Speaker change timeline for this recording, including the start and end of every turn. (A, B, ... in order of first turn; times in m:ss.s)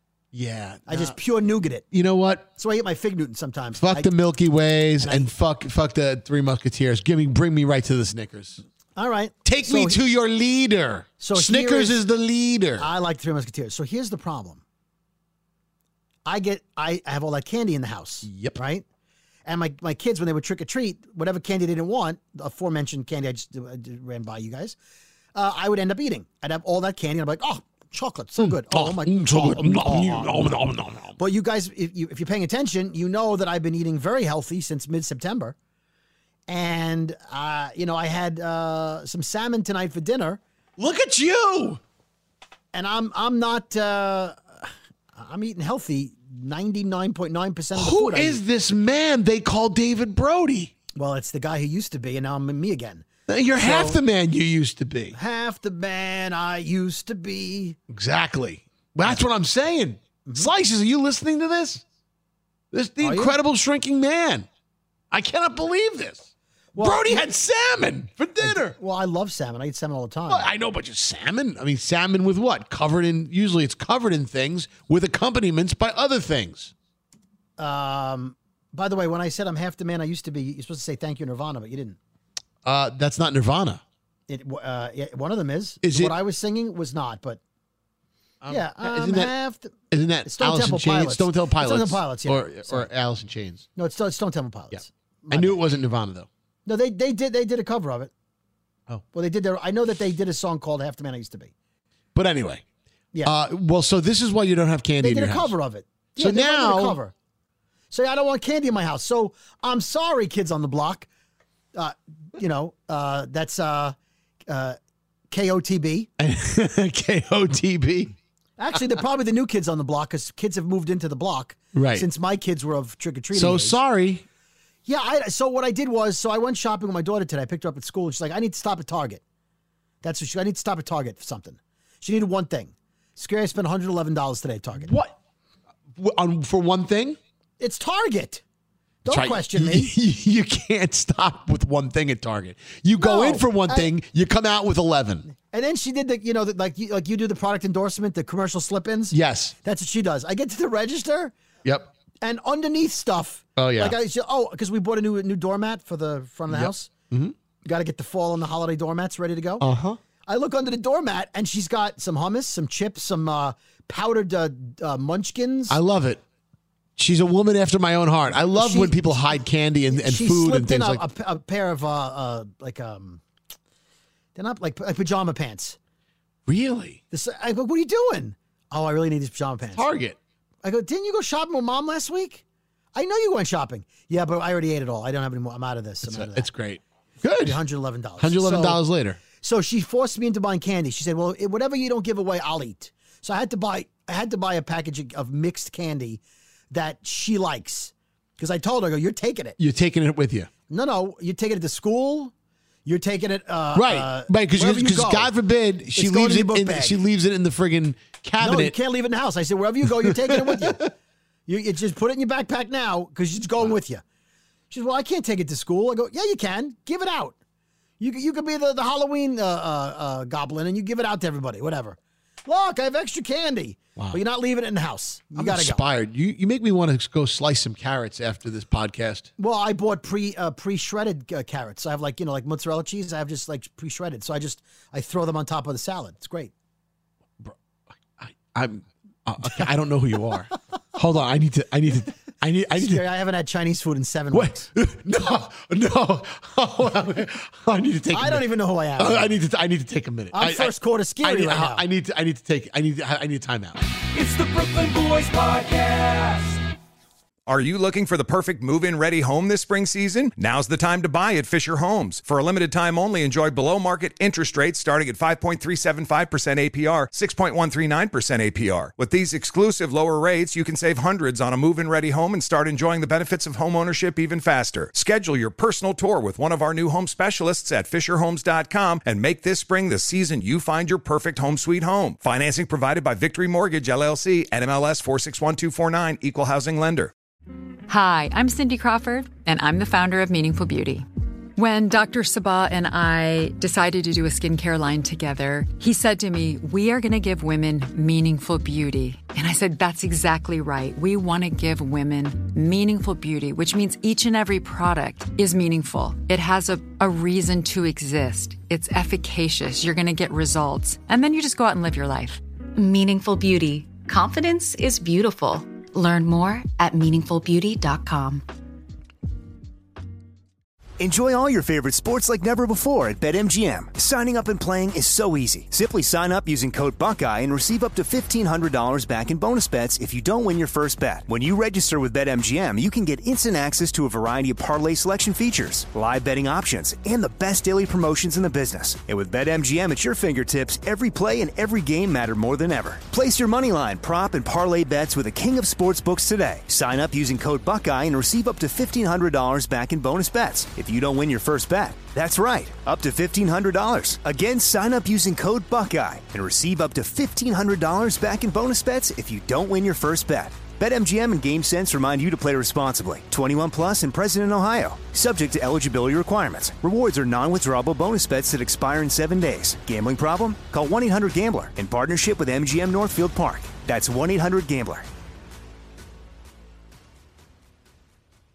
0:00.3-0:01.2 A
0:00.9-0:01.8 B
0:01.9-0:02.5 A
0:02.6-0:04.1 B
0:03.8-0:08.6 A
0:05.0-0:05.3 B
0:09.0-0:10.0 B
0:09.4-0:12.9 A
0:11.2-0:12.0 B
0:12.8-0:14.6 B
0:16.3-0:18.8 B
0:18.2-0:18.6 A
0:19.5-0:24.8 B
0:25.3-0:30.6 B
0:28.4-0:31.2 A
0:31.2-0:35.6 B
0:36.5-0:40.4 B
0:40.8-0:41.8 A
0:42.7-0:48.4 B
0:47.8-0:50.7 A
0:51.0-0:54.0 B
0:53.3-0:55.2 A
0:55.1-0:57.8 B
0:57.9-1:01.8 A
1:02.7-1:04.5 A
1:03.0-1:03.4 B
1:05.1-1:06.3 A
1:06.7-1:07.2 B
1:06.8-1:08.8 A
1:08.4-1:10.5 B
1:10.3-1:16.7 A
1:17.6-1:22.0 B
1:22.6-1:23.8 A
1:24.3-1:27.4 B
1:25.8-1:26.2 A
1:28.4-1:29.4 A
1:28.5-1:29.7 B
1:29.9-1:33.6 A
1:30.3-1:32.9 B
1:33.8-1:35.6 B
1:34.7-1:36.3 A
1:36.6-1:38.1 B
1:39.1-1:41.5 B
1:42.1-1:42.6 A
1:43.2-1:45.5 A
1:45.0-1:47.1 B
1:46.2-1:47.0 A
1:47.9-1:51.1 B
1:51.8-1:54.0 B
1:54.5-1:54.8 B
1:55.3-1:56.1 B
1:56.2-1:58.2 A
1:58.6-2:03.8 B
2:01.7-2:02.1 A
2:03.3-2:04.2 A
2:04.9-2:09.2 B
2:10.0-2:14.9 B
2:14.8-2:15.2 A
2:16.0-2:17.2 A
2:17.6-2:18.4 B
2:19.0-2:19.9 B
2:19.1-2:25.3 A
2:23.0-2:23.9 B
2:25.3-2:31.3 B
2:29.1-2:29.5 A
2:31.6-2:31.9 A
2:32.2-2:36.9 B
2:33.6-2:34.0 A
2:36.5-2:37.3 A
2:37.6-2:39.6 B
2:39.6-2:40.0 A
2:40.3-2:45.8 B
2:45.7-2:46.2 A
2:47.0-2:51.0 A
2:48.5-2:53.2 B
2:54.4-2:55.8 B
2:56.5-2:57.0 A
2:57.1-2:59.8 B
2:59.8-3:00.2 A
3:00.6-3:02.4 B
3:03.0-3:06.5 B
3:06.0-3:07.6 A
3:07.4-3:08.8 B
3:08.2-3:09.2 A
3:09.4-3:19.6 B
3:19.6-3:20.5 A
3:20.7-3:22.3 B
3:22.9-3:25.3 B
3:23.8-3:28.8 A
3:26.0-3:27.0 B
3:28.4-3:30.9 B
3:29.8-3:30.9 A
3:31.5-3:34.0 B
3:34.7-3:37.4 B
3:38.0-3:45.8 B
3:45.4-3:49.3 A
3:49.4-3:56.5 B
3:58.2-4:03.0 A
4:02.8-4:04.7 B
4:04.3-4:08.5 A
4:08.1-4:09.3 B
4:09.0-4:13.8 A
4:10.3-4:11.9 B
4:14.1-4:16.6 C
4:17.5-4:47.1 D
4:47.9-5:12.4 E
5:12.8-5:18.4 F
5:21.0-6:15.1 G